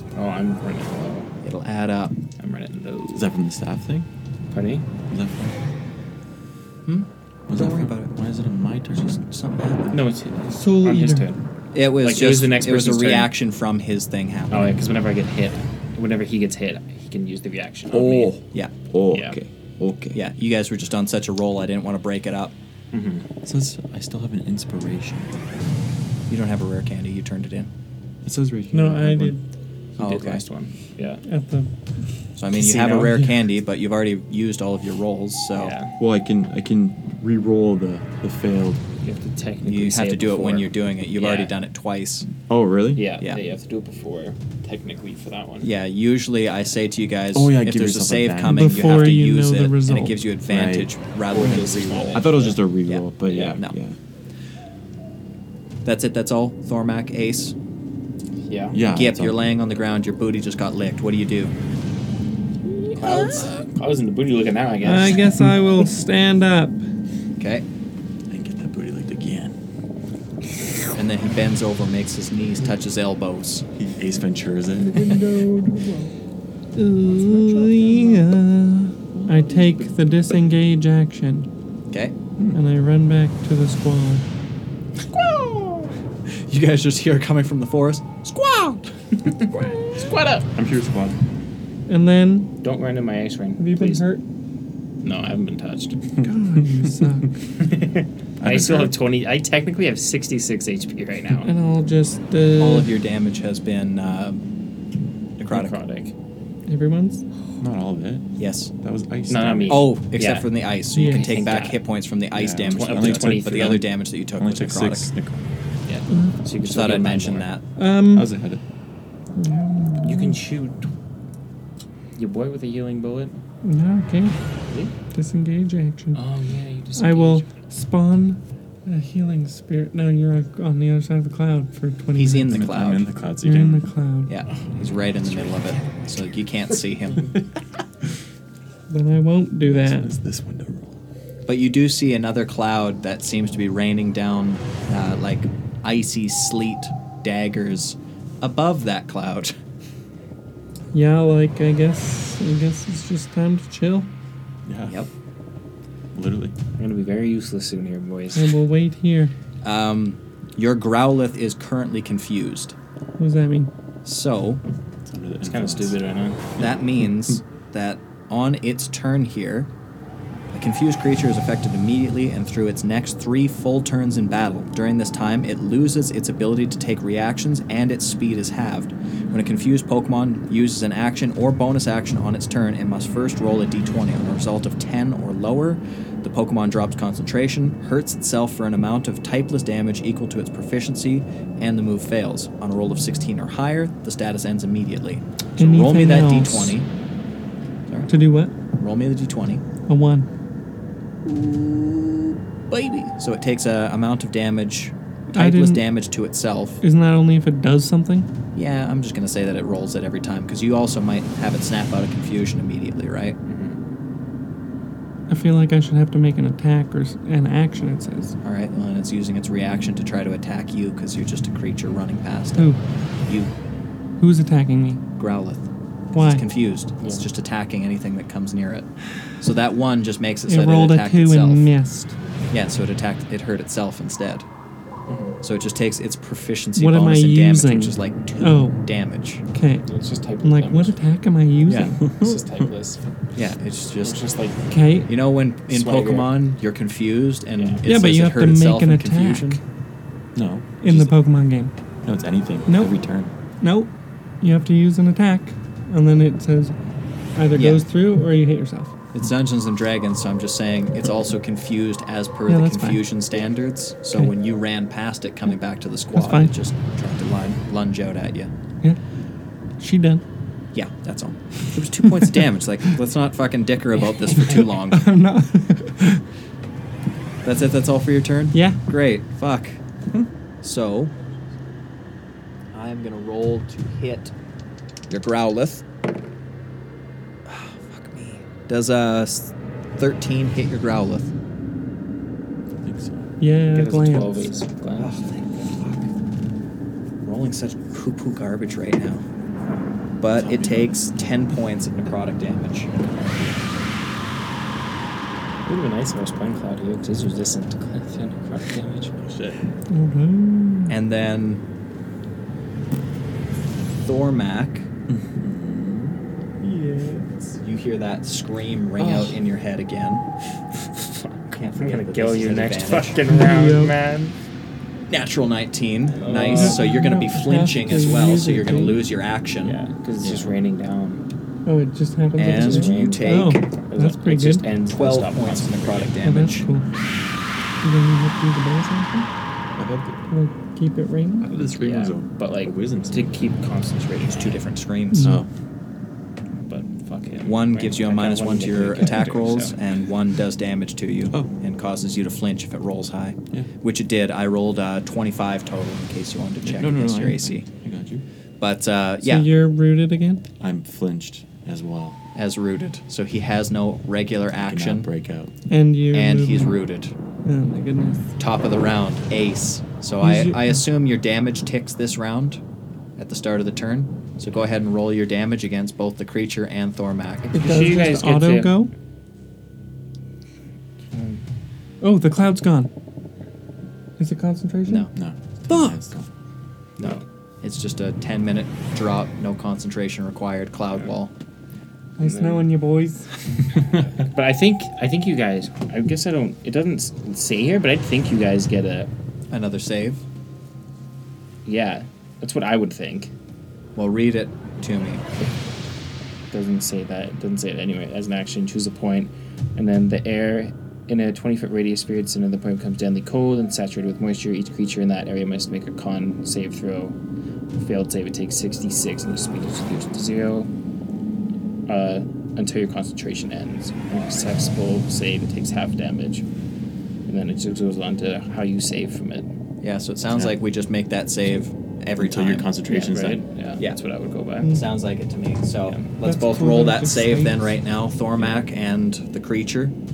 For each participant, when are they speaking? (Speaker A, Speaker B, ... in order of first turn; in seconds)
Speaker A: 0.1-1.3, 2.4-3.3, 4.5-4.8, 9.9-11.4, 11.9-13.3, 14.5-18.4, 19.1-19.4, 22.9-23.2, 30.0-31.2, 32.5-33.3, 35.5-35.9, 39.0-41.5, 43.0-45.7, 51.3-52.6, 53.2-53.6, 58.5-58.8, 62.9-65.3, 89.9-90.5, 92.6-94.1, 95.0-96.0, 97.6-101.5, 105.5-106.1, 109.3-111.8, 112.7-113.8, 115.8-117.5, 120.0-120.8, 122.2-123.4, 124.7-124.9, 126.1-127.5, 134.5-136.7, 156.8-158.6, 165.4-166.4, 213.4-213.8, 227.0-227.2, 235.1-235.4, 239.8-241.0, 242.0-243.0, 244.0-244.6, 245.7-246.3, 247.6-247.8, 293.7-295.2, 305.6-309.1, 320.8-324.3, 326.1-326.9, 329.6-331.2, 332.4-336.2, 341.8-344.6, 346.6-349.8, 377.5-378.8, 381.1-381.4, 387.0-387.2, 392.2-392.8, 393.6-399.1, 401.6-403.3, 406.5-417.1, 417.8-420.7, 421.9-426.4, 427.2-429.6, 432.9-434.7
Speaker B: 1.4-2.2, 6.8-8.1, 8.9-10.0, 11.7-14.7, 20.1-22.5, 26.3-27.7, 30.0-30.4, 32.4-35.7, 39.6-42.3, 45.6-53.0, 55.8-57.5, 58.9-61.5, 67.4-67.6, 70.9-73.6, 81.9-82.2, 85.1-85.6, 86.3-89.8, 102.6-104.4, 105.4-105.8, 108.4-108.7, 109.7-115.1, 116.6-117.7, 132.1-133.1, 134.2-137.3, 141.4-149.5, 159.6-162.7, 164.0-164.6, 166.6-169.7, 170.5-196.9, 198.7-199.6, 201.2-206.8, 208.5-213.4, 218.4-222.7, 225.2-231.7, 232.5-234.4, 235.4-239.4, 241.7-241.9, 243.3-244.2, 245.1-249.6, 257.5-257.9, 259.1-268.5, 270.7-275.1, 277.4-279.8, 280.6-281.1, 282.7-284.3, 285.1-285.8, 287.4-291.3, 295.0-296.1, 297.2-299.2, 300.2-303.8, 310.9-311.6, 313.9-314.9, 317.6-320.3, 321.5-323.2, 325.1-329.8, 332.4-333.7, 334.9-336.7, 344.2-345.4, 347.4-357.7, 358.6-359.5, 362.3-365.1, 366.1-367.1, 368.4-372.6, 373.2-377.5, 384.8-385.1, 387.0-391.3, 399.5-400.2, 403.9-405.2, 429.8-432.7, 434.6-439.9
Speaker C: 3.1-4.1, 5.1-5.6, 7.5-9.2, 17.9-20.2, 23.4-25.4, 28.2-29.4, 36.0-38.8, 42.5-43.1, 47.3-49.0, 50.5-50.9, 51.5-54.0, 58.7-59.4, 68.3-69.6, 73.8-75.8, 77.1-78.2, 79.1-79.9, 90.5-91.2, 98.4-98.9, 107.6-108.3, 108.8-109.9, 112.3-115.4, 118.1-118.6, 132.5-133.9, 139.6-141.0, 154.7-155.1, 156.1-156.6, 165.1-166.0, 166.6-167.1, 242.0-242.7, 250.3-251.1, 252.0-253.3, 292.8-293.3, 300.3-301.3, 309.2-309.6, 315.1-316.2, 319.0-319.3, 321.9-322.7, 330.2-330.5, 339.8-340.2, 341.4-343.4, 345.2-345.5, 356.6-358.2, 360.6-362.2, 364.5-365.5, 385.1-386.3, 432.2-433.4
Speaker D: 10.5-11.3, 28.7-29.4, 31.2-31.7, 48.5-50.2, 64.8-66.8, 75.0-75.9, 76.8-81.5, 82.5-84.2, 91.9-92.5, 93.6-94.2, 96.2-97.3, 101.4-102.9, 106.7-107.2, 110.9-111.4, 116.1-116.4, 117.8-118.3, 119.4-120.4, 123.6-124.3, 125.1-126.2, 127.0-132.7, 133.4-134.3, 138.9-140.1, 150.9-154.1, 158.3-159.3, 163.2-163.7, 195.6-196.8, 198.1-198.5, 199.8-200.3, 205.3-205.8, 206.8-208.3, 215.3-218.4, 222.6-222.8, 224.2-225.0, 226.1-226.4, 230.5-232.1, 236.8-238.8, 239.5-239.9, 240.4-242.0, 244.7-245.1, 247.8-249.6, 250.8-251.7, 252.7-253.0, 253.6-256.7, 257.3-258.9, 262.5-263.0, 266.1-266.5, 269.8-270.2, 274.6-276.2, 278.5-278.8, 293.4-294.5, 309.9-311.0, 316.6-317.3, 323.3-324.1, 326.5-329.0, 331.6-334.7, 336.2-336.9, 337.8-339.3, 340.3-341.5, 345.1-345.4, 359.2-360.4, 365.7-366.8, 367.4-368.3, 370.2-370.8, 377.5-378.9, 382.0-382.9, 384.2-385.1, 392.2-393.3, 436.2-437.6